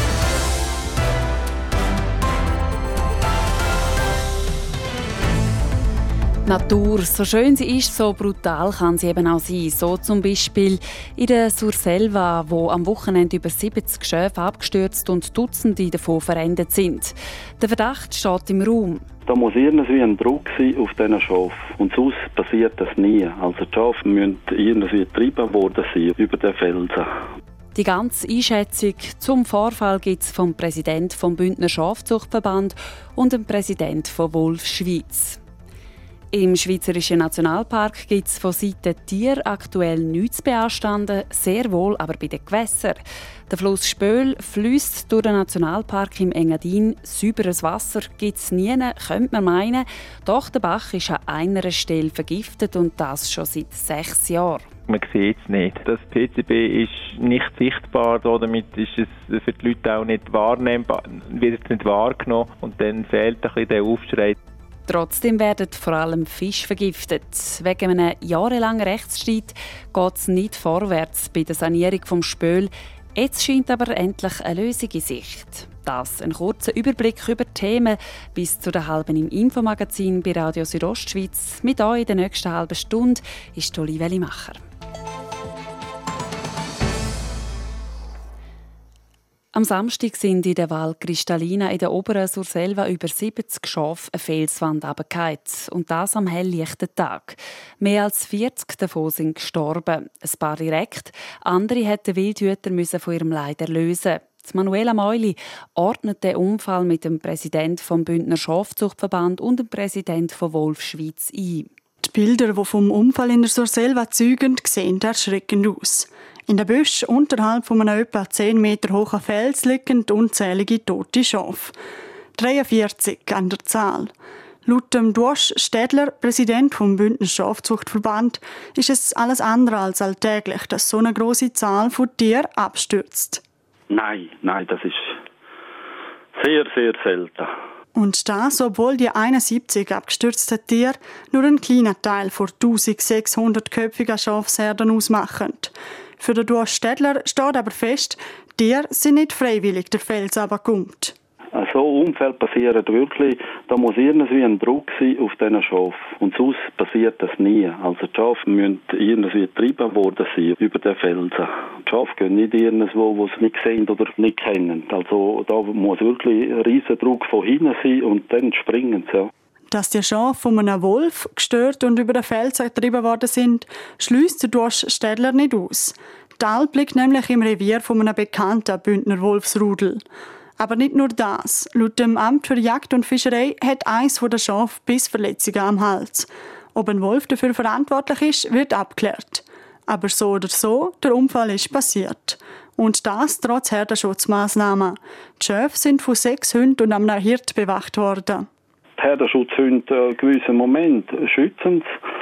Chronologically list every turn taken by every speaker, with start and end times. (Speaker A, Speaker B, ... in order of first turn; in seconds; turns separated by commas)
Speaker A: 6.5-19.0, Speaker B: 19.3-27.1, Speaker A: 27.7-35.4, Speaker A: 36.3-54.7, Speaker C: 54.9-64.3, Speaker A: 64.9-84.6, Speaker A: 89.5-111.7, Speaker D: 112.0-121.7, Speaker D: 122.4-124.1, Speaker D: 124.7-133.4, Speaker B: 133.9-135.2, Speaker B: 136.3-137.5, Speaker D: 137.9-151.1, Speaker B: 151.6-169.3, Speaker D: 169.7-180.0, Speaker D: 180.6-198.5, Speaker B: 199.0-201.9